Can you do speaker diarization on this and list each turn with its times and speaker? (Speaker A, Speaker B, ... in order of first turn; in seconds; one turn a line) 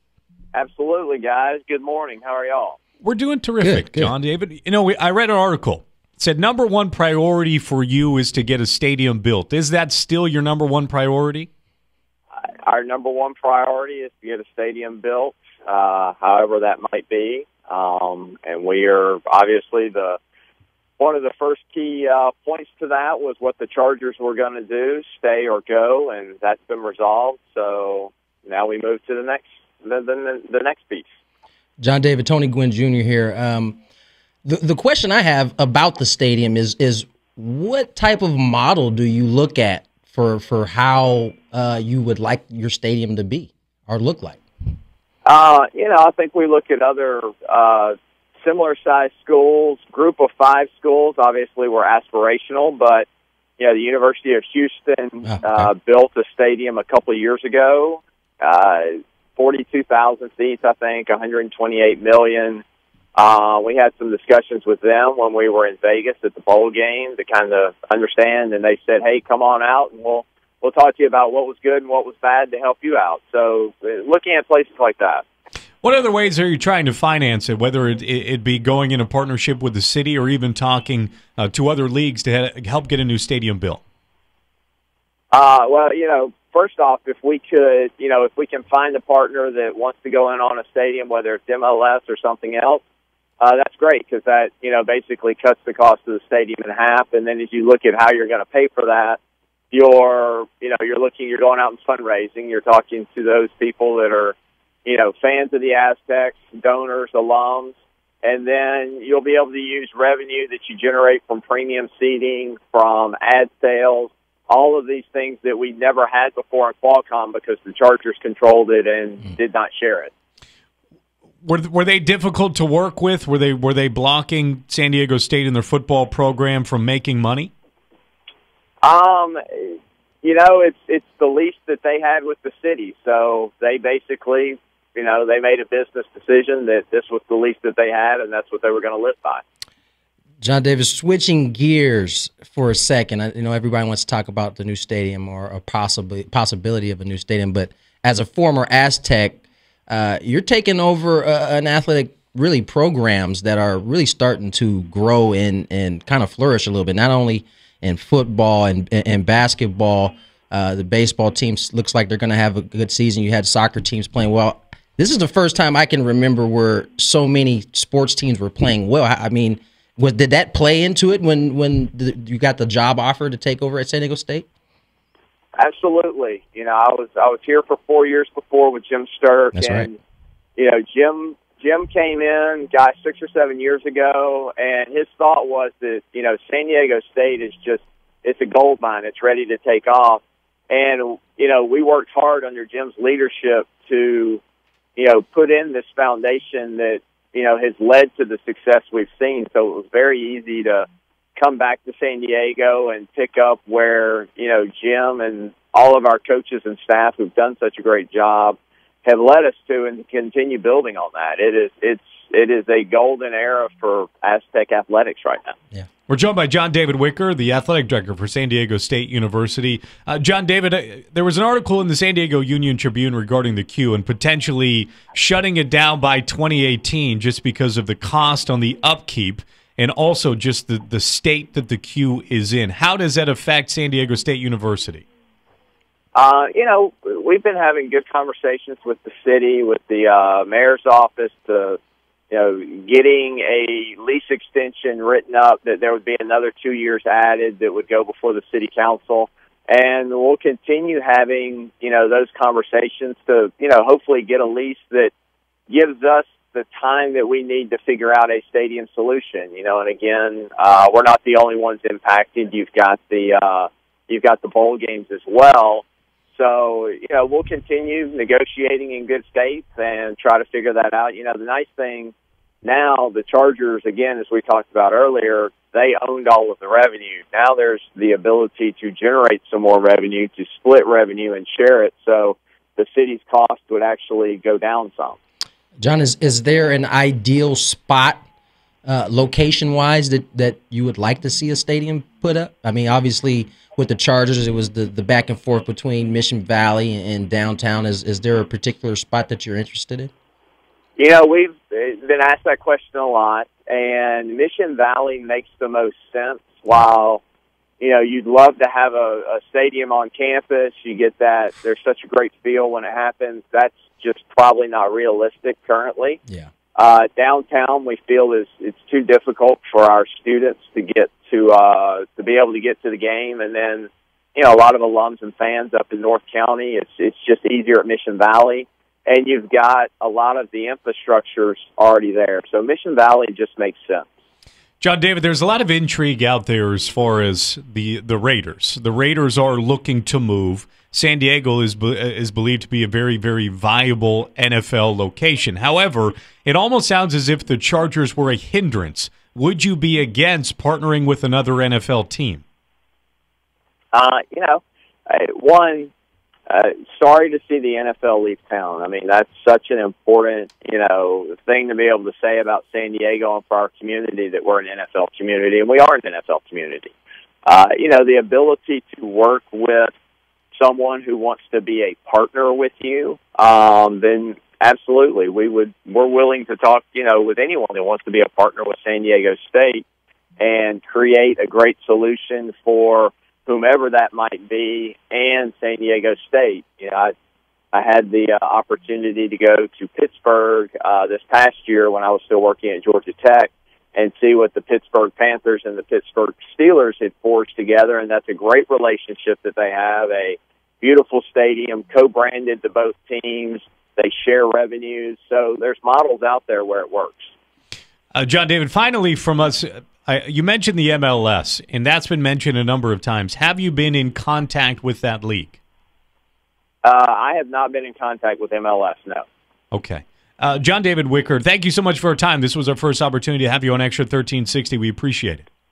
Speaker A: 0.5-2.8
Speaker B: 3.0-11.5
Speaker C: 3.6-4.1
Speaker A: 12.4-20.2
Speaker A: 21.0-31.1
Speaker C: 31.8-33.8
Speaker C: 34.4-44.4
Speaker A: 45.2-53.1
Speaker A: 53.6-62.6
Speaker C: 55.2-55.7
Speaker A: 63.1-75.2
Speaker B: 75.8-83.8
Speaker A: 85.3-92.8
Speaker A: 93.4-99.2
Speaker A: 99.7-120.1
Speaker B: 121.4-127.5
Speaker A: 128.8-139.4
Speaker C: 140.4-174.5
Speaker A: 175.6-179.9
Speaker C: 179.5-179.9
Speaker A: 180.6-194.4
Speaker A: 195.0-200.8
Speaker A: 201.4-215.6
Speaker B: 216.1-235.0
Speaker A: 236.1-241.8
Speaker A: 242.3-255.1
Speaker A: 255.7-272.1
Speaker A: 272.6-285.2
Speaker C: 285.8-288.2
Speaker C: 288.8-300.1
Speaker A: 301.0-307.2
Speaker A: 307.8-316.2
Speaker A: 316.8-334.1
Speaker B: 334.8-352.4
Speaker A: 353.9-355.9
Speaker A: 356.5-366.9
Speaker A: 367.4-369.9
Speaker A: 370.5-379.8
Speaker A: 380.4-387.1
Speaker A: 387.7-407.3
Speaker B: 408.1-415.6
Speaker A: 416.8-419.2
Speaker B: 419.7-425.4